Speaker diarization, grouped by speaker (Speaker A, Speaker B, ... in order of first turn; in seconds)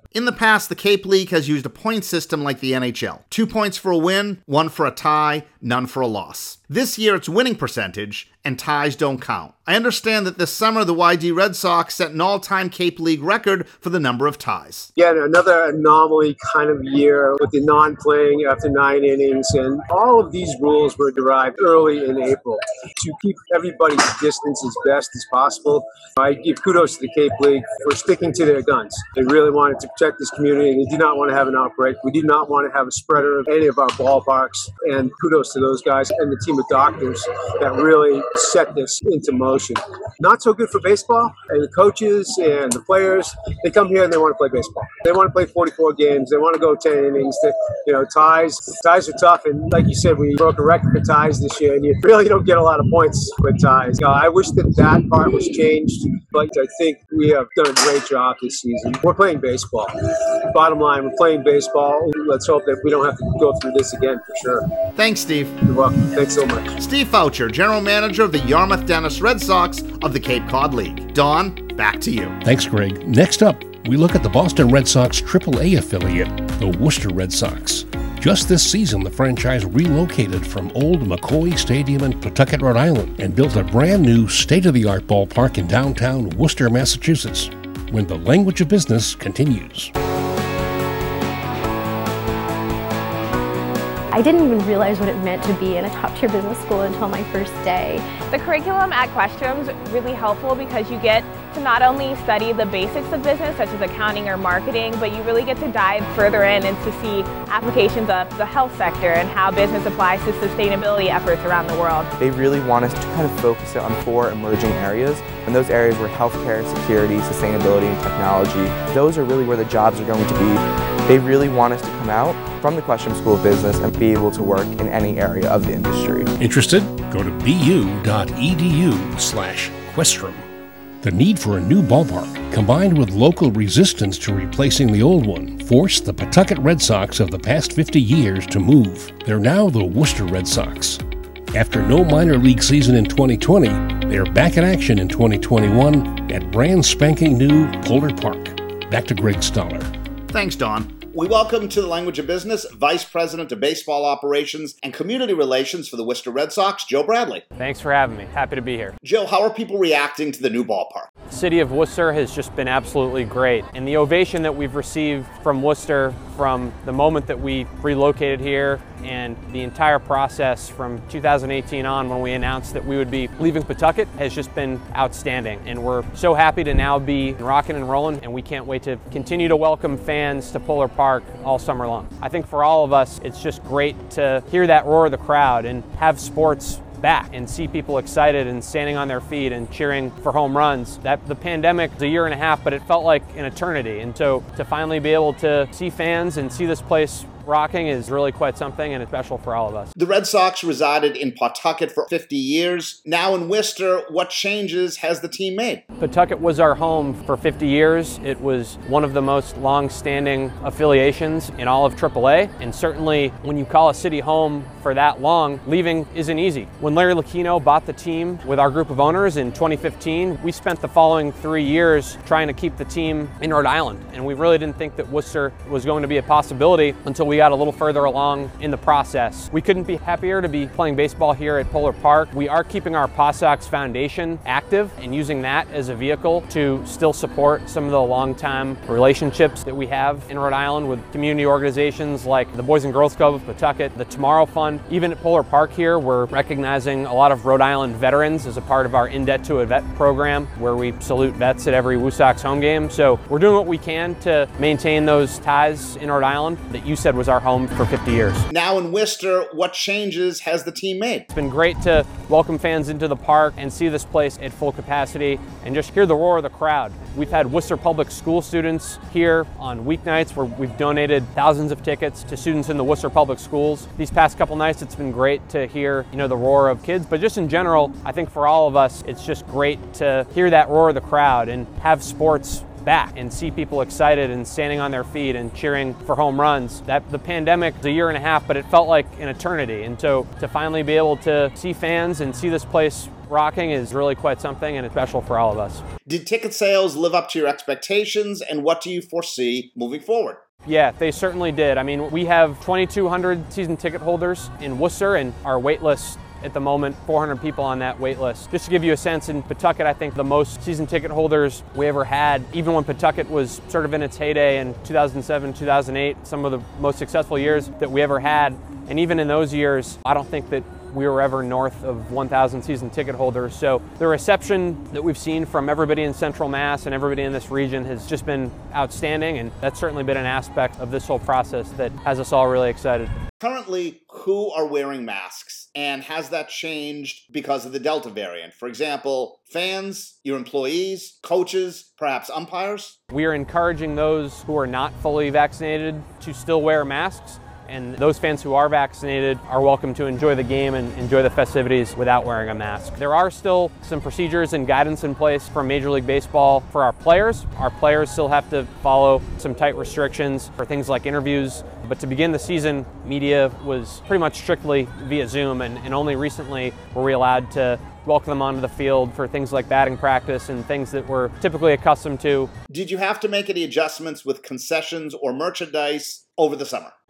Speaker A: 0.1-14.9, 65.0-65.6, 66.8-72.4, 150.3-157.4, 159.0-161.1, 200.0-205.8, 258.5-261.3, 296.1-300.4, 333.4-343.0, 372.7-376.9
Speaker B: 15.0-64.7, 65.7-66.7
Speaker C: 72.4-89.9, 126.4-130.5, 131.0-141.0, 141.5-149.9
Speaker D: 94.1-98.2
Speaker E: 98.3-112.1
Speaker F: 112.2-126.3
Speaker G: 157.6-158.9, 161.3-199.9, 206.0-258.5, 261.3-295.8, 300.6-333.2, 343.1-372.5